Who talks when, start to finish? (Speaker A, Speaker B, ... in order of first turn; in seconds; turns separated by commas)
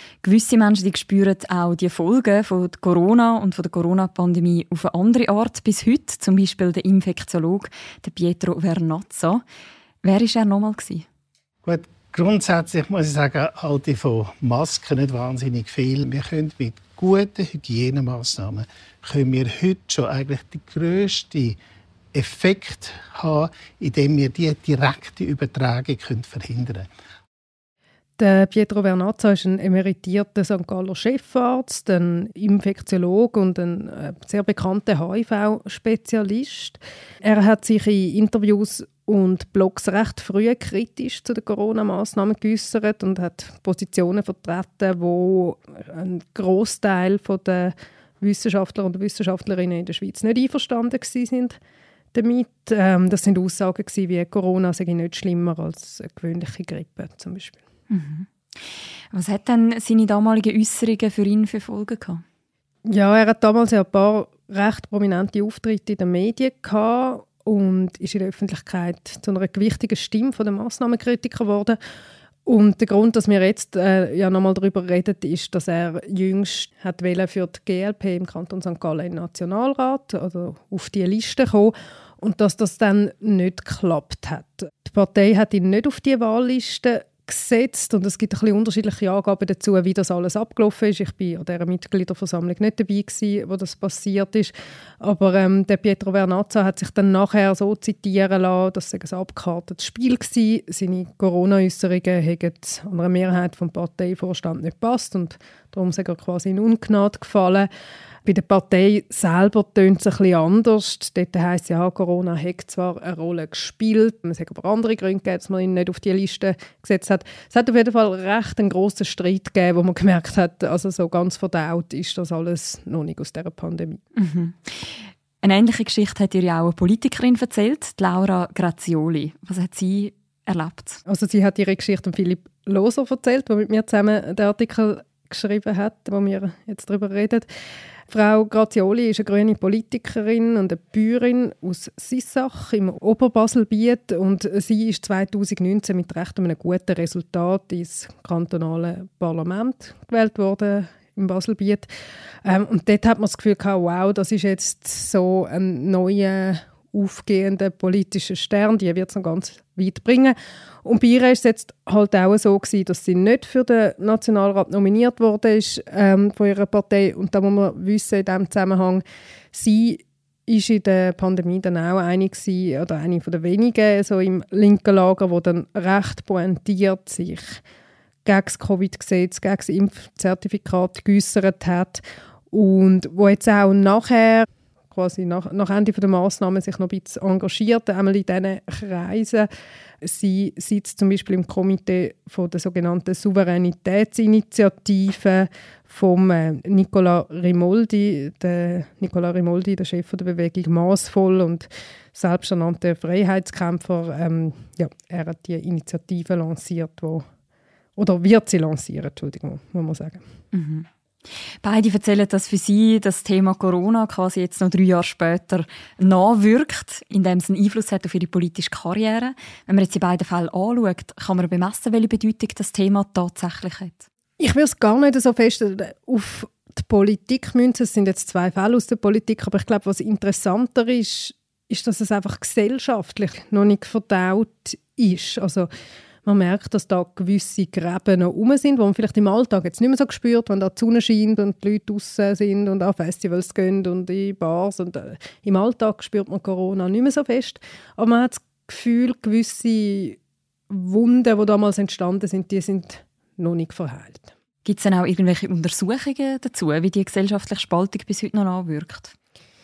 Speaker A: 0.2-9.4, Speaker A: 10.0-11.1, Speaker B: 11.6-21.6, Speaker B: 22.1-26.9, Speaker C: 28.2-51.6, Speaker C: 52.1-57.6, Speaker A: 57.9-62.2, Speaker C: 62.9-71.8, Speaker C: 72.5-107.7, Speaker C: 108.2-124.0, Speaker A: 124.2-131.0, Speaker C: 131.1-137.5, Speaker C: 138.1-151.9, Speaker C: 152.4-177.6, Speaker C: 178.2-189.5, Speaker C: 190.0-207.3, Speaker C: 208.0-210.2, Speaker A: 210.5-210.9, Speaker A: 211.6-224.1, Speaker C: 224.4-235.7, Speaker C: 236.2-250.2, Speaker C: 250.7-254.3, Speaker A: 254.7-259.1